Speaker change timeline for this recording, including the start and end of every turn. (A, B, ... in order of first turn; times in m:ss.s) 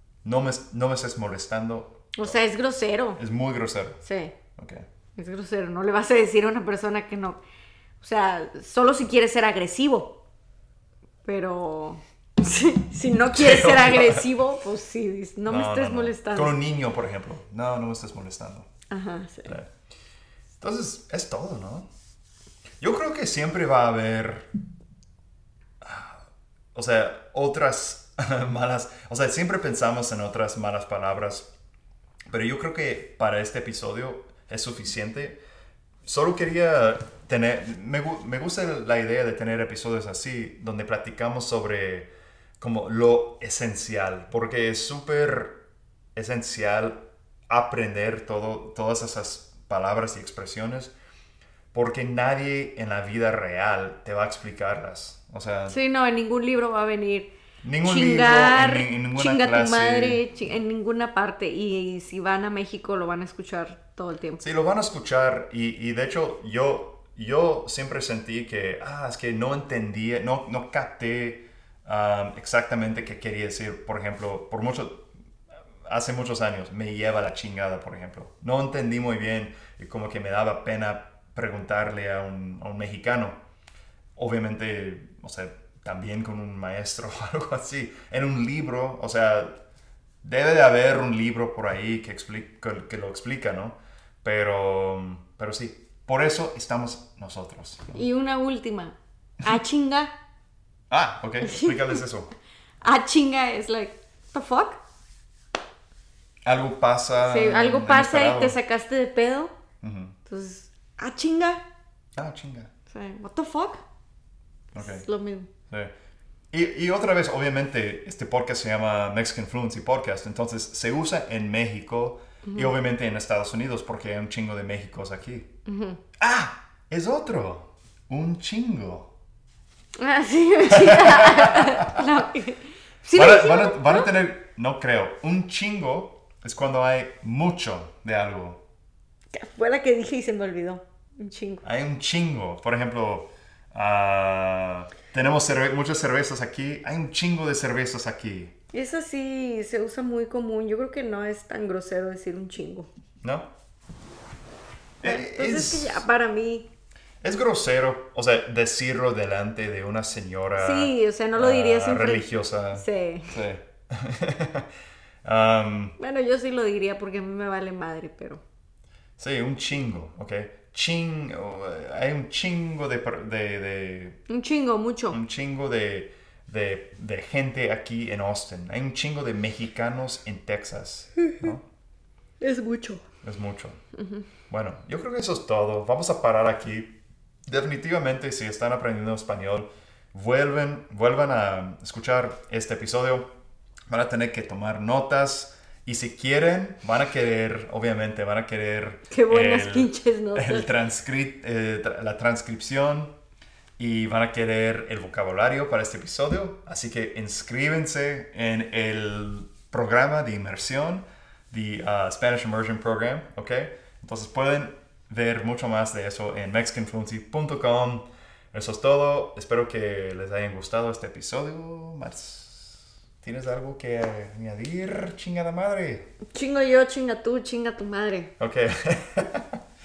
0:00.2-0:02.4 A
0:02.1-0:03.2 B
0:03.2-0:04.0 A
0:04.0-0:04.3 B
0:04.6-0:04.8 A
0:05.2-0:07.4 B
0:08.0-0:10.2 B
0:11.2-0:16.6 B
0:13.3-0:14.2 A
0:15.5-0:18.7 A
0:18.9-0:19.5 B
0:20.6-0:21.9 A
0:22.8-0:24.5 A
0:25.8-0:26.2 A
0:26.7-0:31.5 A
0:32.3-0:35.4 A
0:36.0-0:45.6 A
0:46.1-0:50.9 A
0:51.7-0:55.8 A
0:55.7-1:04.4 B
0:57.6-1:00.2 A
1:04.4-1:15.1 A
1:15.8-1:23.4 A
1:24.2-1:29.6 A
1:30.2-1:38.0 A
1:37.9-1:40.1 B
1:40.9-1:42.3 A
1:41.4-1:41.9 B
1:42.8-1:44.8 B
1:46.4-1:48.6 A
1:47.2-1:49.5 B
1:49.8-1:50.2 A
1:50.3-1:51.6 B
1:52.2-1:52.7 A
1:52.9-1:53.8 B
1:54.7-1:55.0 A
1:54.7-1:55.5 B
1:56.5-2:05.5 A
2:02.4-2:02.7 B
2:05.6-2:06.0 B
2:06.2-2:09.1 A
2:10.0-2:14.1 B
2:10.7-2:11.9 A
2:13.1-2:18.6 A
2:19.3-2:21.6 B
2:21.6-2:28.5 A
2:28.7-2:32.9 B
2:33.2-2:33.5 A
2:35.0-2:36.1 A
2:35.0-2:36.7 B
2:37.2-2:44.7 A
2:40.6-2:43.4 B
2:45.2-2:46.0 A
2:46.0-2:48.4 B
2:49.2-2:54.2 A
2:54.3-2:55.2 B
2:55.1-3:01.6 A
3:02.4-3:03.0 B
3:03.2-3:03.8 A
3:03.9-3:04.2 B
3:04.5-3:13.3 A
3:13.9-3:23.1 A
3:19.1-3:20.7 B
3:23.8-3:46.0 A
3:46.3-3:48.3 B
3:48.4-3:49.6 A